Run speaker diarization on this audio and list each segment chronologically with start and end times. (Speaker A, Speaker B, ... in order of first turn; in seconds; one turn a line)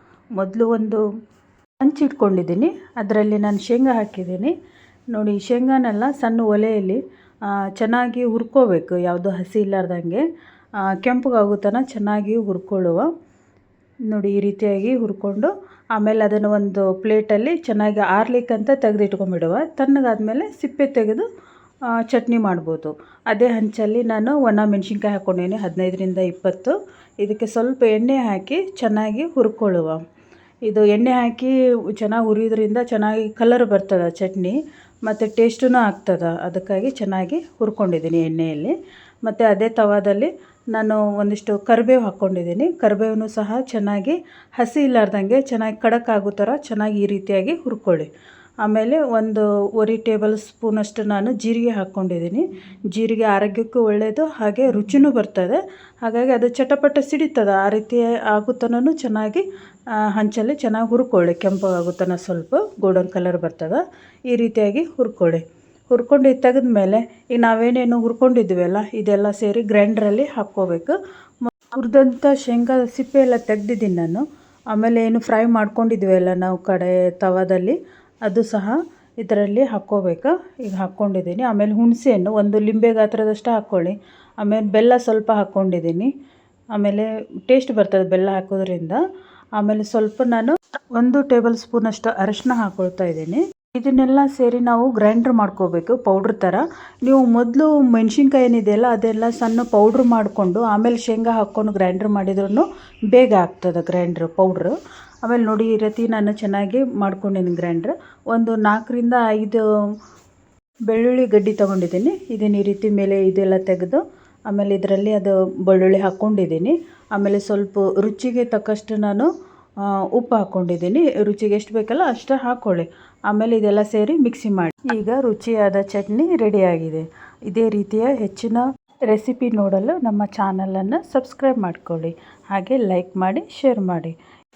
Speaker A: 0.3-1.0
Speaker A: 1.8-4.5
Speaker A: 5.1-7.0
Speaker A: 7.8-10.2
Speaker A: 10.9-13.1
Speaker A: 14.1-21.2
Speaker A: 22.1-30.0
Speaker A: 30.7-34.5
Speaker A: 35.0-48.1
Speaker A: 48.6-59.4
Speaker A: 60.1-63.8
Speaker A: 64.3-86.1
Speaker A: 86.7-89.0
Speaker A: 89.6-109.6
Speaker A: 110.9-119.3
Speaker A: 120.1-134.1